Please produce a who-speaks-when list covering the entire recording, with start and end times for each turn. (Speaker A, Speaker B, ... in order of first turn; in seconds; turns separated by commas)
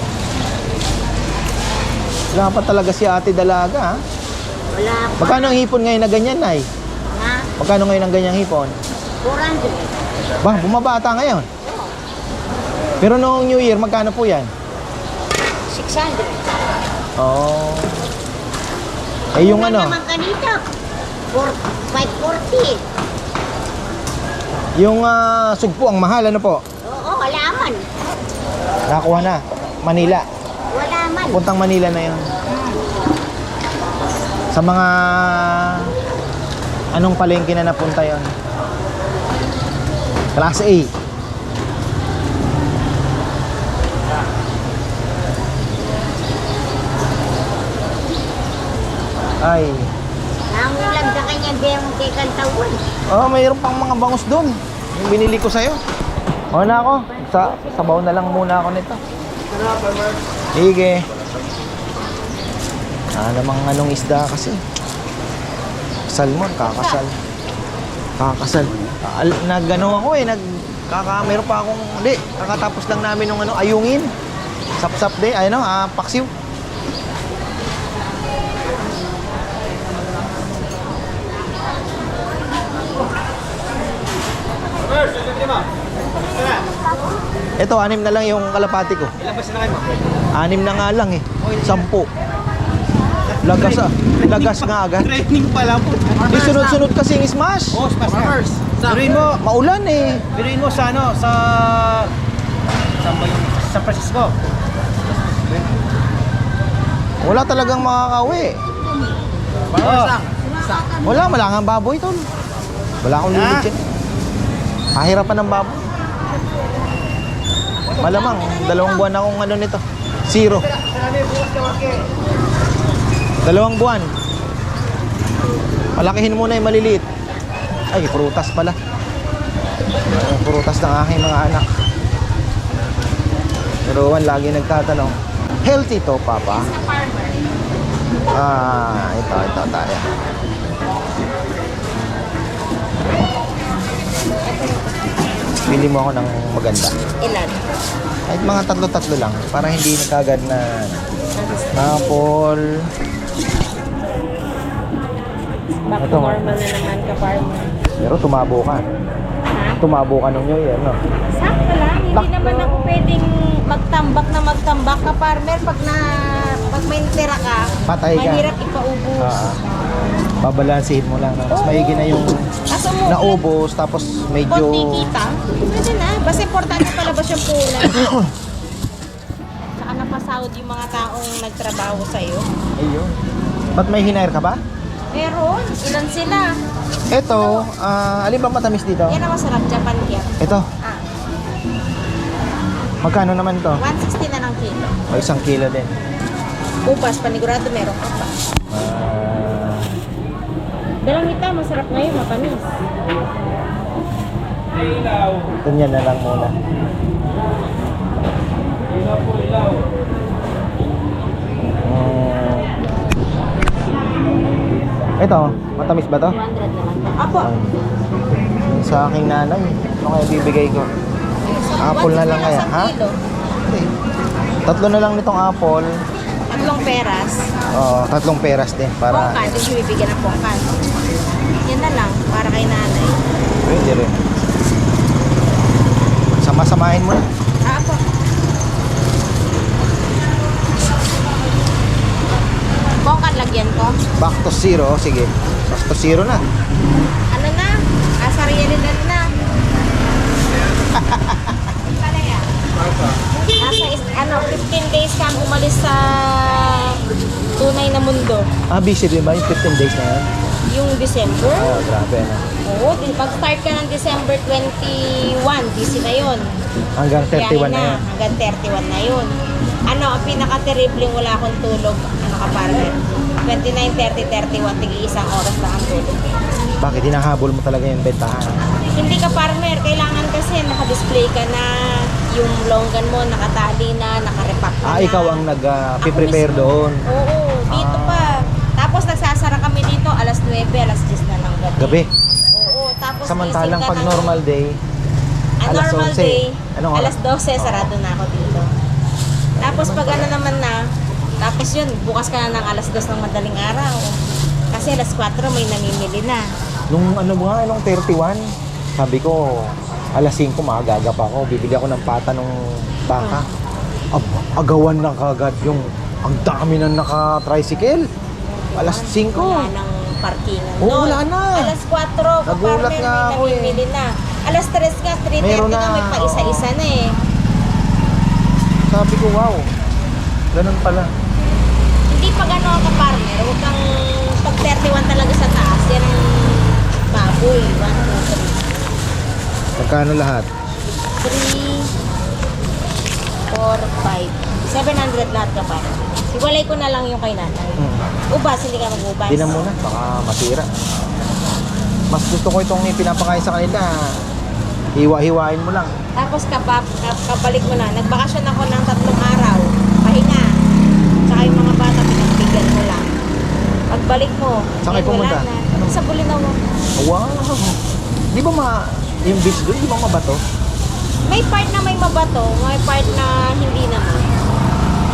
Speaker A: 2.3-4.0, Speaker B: 4.7-5.6, Speaker A: 5.2-6.7, Speaker B: 7.1-7.5, Speaker A: 7.6-8.8, Speaker B: 9.2-10.1, Speaker A: 10.4-11.5, Speaker B: 11.6-11.9, Speaker A: 13.0-14.5, Speaker B: 15.7-16.6, Speaker A: 17.2-18.0, Speaker A: 19.4-20.0, Speaker B: 19.4-20.6, Speaker B: 21.3-22.8, Speaker A: 24.8-26.6, Speaker B: 26.8-27.9, Speaker A: 28.9-30.3, Speaker B: 30.7-31.4, Speaker A: 31.3-32.2, Speaker B: 32.5-32.8, Speaker A: 34.5-35.9, Speaker A: 36.9-38.3, Speaker A: 40.4-40.9, Speaker A: 49.4-49.9, Speaker B: 50.5-52.8, Speaker A: 53.1-55.8, Speaker A: 56.5-59.0, Speaker B: 57.1-57.9, Speaker C: 59.5-60.2, Speaker A: 60.5-61.0, Speaker A: 63.2-64.6, Speaker A: 66.1-67.1, Speaker A: 68.2-74.1, Speaker A: 74.8-76.3, Speaker A: 87.6-89.1, Speaker C: 89.2-89.9, Speaker A: 90.3-92.1, Speaker A: 93.4-95.1, Speaker C: 94.3-96.8, Speaker A: 96.3-97.8, Speaker C: 97.7-99.2, Speaker A: 98.9-100.4, Speaker C: 100.4-102.1, Speaker C: 103.0-104.3, Speaker A: 107.2-108.6, Speaker C: 109.7-110.3, Speaker A: 109.8-110.2, Speaker A: 111.0-112.3, Speaker A: 113.0-113.8, Speaker A: 115.0-115.8, Speaker D: 118.0-118.9, Speaker A: 118.0-120.7, Speaker A: 123.4-124.1, Speaker A: 126.0-127.1, Speaker A: 127.9-128.8, Speaker A: 130.1-131.7, Speaker A: 133.8-136.7, Speaker D: 136.7-137.4, Speaker A: 138.3-140.1, Speaker D: 144.4-145.1, Speaker A: 145.7-147.0, Speaker D: 147.2-147.6, Speaker A: 148.3-151.0, Speaker D: 151.4-151.7, Speaker A: 151.8-152.7, Speaker D: 155.9-157.7, Speaker A: 156.0-156.5, Speaker A: 158.0-158.8, Speaker D: 159.5-159.8, Speaker A: 159.8-161.0, Speaker D: 161.3-169.5, Speaker A: 162.1-162.5, Speaker A: 167.9-168.5, Speaker A: 169.2-169.6, Speaker A: 170.4-172.4, Speaker D: 171.5-172.2, Speaker D: 172.7-173.4, Speaker A: 173.1-175.0, Speaker D: 174.5-178.2, Speaker D: 179.8-182.4, Speaker A: 182.8-183.2, Speaker A: 183.8-184.6, Speaker D: 185.1-186.6, Speaker A: 187.1-189.2, Speaker D: 187.3-187.6, Speaker D: 189.1-191.0, Speaker A: 190.4-190.7, Speaker A: 193.0-193.8, Speaker D: 193.8-194.9, Speaker A: 195.1-195.9, Speaker D: 196.8-198.3, Speaker A: 198.7-199.9, Speaker D: 201.0-202.8, Speaker A: 205.6-206.6, Speaker A: 211.8-212.7, Speaker A: 215.2-216.4, Speaker D: 216.4-217.5, Speaker A: 217.4-217.7, Speaker A: 218.7-220.9, Speaker D: 221.4-223.2, Speaker A: 221.8-222.9, Speaker A: 224.7-225.9, Speaker D: 226.5-227.5, Speaker A: 227.7-229.6, Speaker D: 229.1-230.7, Speaker D: 231.7-233.2, Speaker A: 233.7-234.2, Speaker A: 236.4-237.3, Speaker D: 237.6-238.0, Speaker D: 243.0-244.0, Speaker A: 244.2-246.4, Speaker D: 247.3-249.2, Speaker A: 250.9-251.6, Speaker D: 252.0-252.4, Speaker D: 253.6-257.0, Speaker D: 257.6-258.5, Speaker A: 258.7-260.3, Speaker D: 260.7-261.7, Speaker A: 261.4-262.4, Speaker D: 262.7-266.4, Speaker A: 267.0-268.0, Speaker D: 267.3-269.3, Speaker D: 269.9-276.2, Speaker A: 276.8-278.6, Speaker D: 278.9-285.4, Speaker A: 284.9-287.0, Speaker D: 286.0-292.0, Speaker A: 287.7-288.4, Speaker A: 291.8-292.1, Speaker D: 292.5-294.4, Speaker A: 293.2-294.8, Speaker D: 295.6-298.7, Speaker A: 295.7-297.9, Speaker A: 299.6-300.4, Speaker D: 299.6-300.8, Speaker D: 301.4-304.2, Speaker D: 304.7-306.4, Speaker A: 306.9-313.5, Speaker A: 314.2-318.1, Speaker D: 318.4-327.1, Speaker A: 318.8-319.7, Speaker A: 320.8-321.7, Speaker A: 322.5-323.8, Speaker A: 325.4-326.7, Speaker A: 328.9-329.7, Speaker A: 330.5-331.1, Speaker D: 332.1-338.6, Speaker A: 339.8-340.5, Speaker D: 341.2-341.9, Speaker D: 343.5-347.8, Speaker D: 348.3-349.6, Speaker A: 349.3-350.7, Speaker A: 352.1-353.9, Speaker A: 355.0-355.9, Speaker D: 356.2-360.5, Speaker D: 361.3-363.1, Speaker D: 363.9-366.6, Speaker A: 364.8-365.9, Speaker A: 367.0-367.8, Speaker A: 368.3-370.4, Speaker D: 371.3-374.3